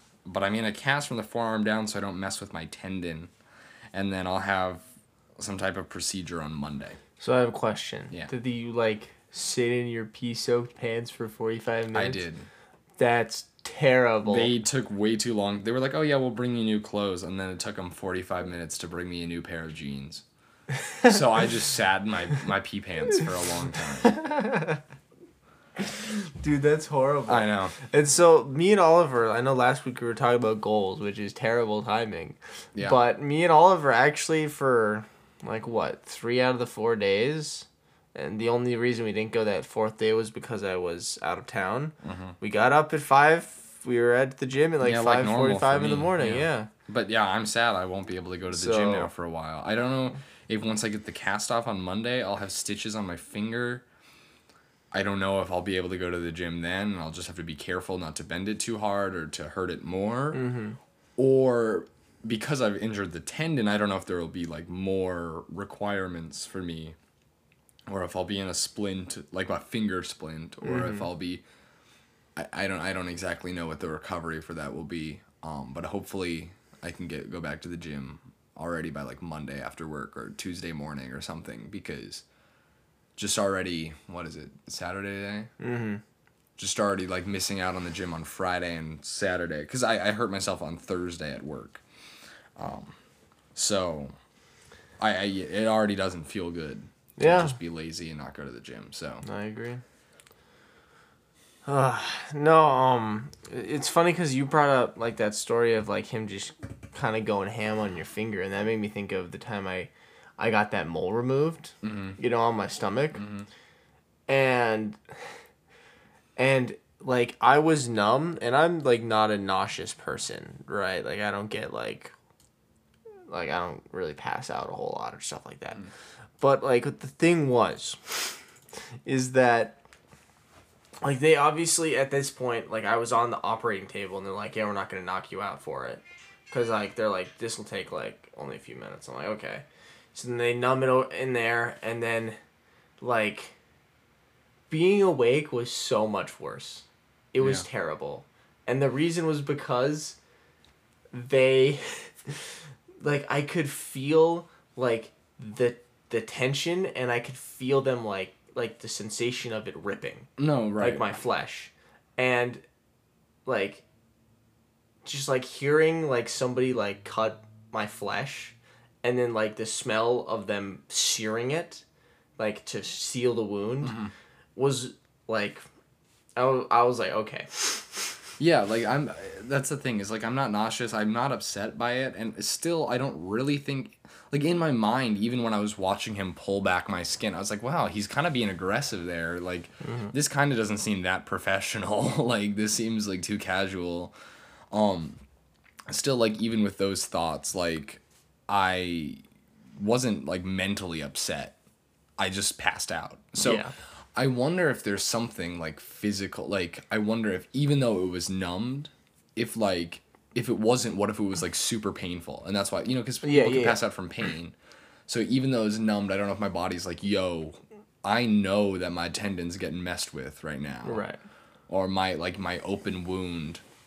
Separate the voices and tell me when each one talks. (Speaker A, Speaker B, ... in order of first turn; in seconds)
Speaker A: 0.2-3.3, 3.9-4.8, 5.4-7.0, 11.9-12.5, 14.2-20.2, 21.0-24.2, 27.3-27.7, 42.0-42.4, 44.8-53.8, 54.9-60.4, 61.2-67.0, 67.9-71.4, 72.3-82.2, 83.2-85.5, 86.6-91.8, 92.6-93.0, 93.5-94.1, 95.0-99.2, 111.8-112.2, 113.2-113.5, 147.4-147.6, 160.4-161.0, 173.8-174.1, 178.4-194.1, 194.7-195.2, 195.9-199.2, 199.8-201.6, 202.2-214.5, 215.1-221.1, 221.7-223.6
Speaker B: 7.2-12.2, 13.0-14.5, 24.0-24.8, 25.8-46.7, 48.5-49.1, 60.3-60.8, 70.6-71.1, 85.6-86.0, 97.2-97.5, 99.2-99.8, 101.7-113.2, 114.3-115.0, 116.4-122.1, 123.3-125.8, 126.4-128.4, 129.0-129.8, 131.0-142.4, 143.0-143.6, 144.7-150.2, 151.1-152.4, 153.0-162.6, 163.4-163.8, 165.0-171.8, 172.4-174.0, 174.6-175.6, 176.3-178.2, 189.8-190.1, 203.4-203.7, 213.2-213.8, 220.8-221.2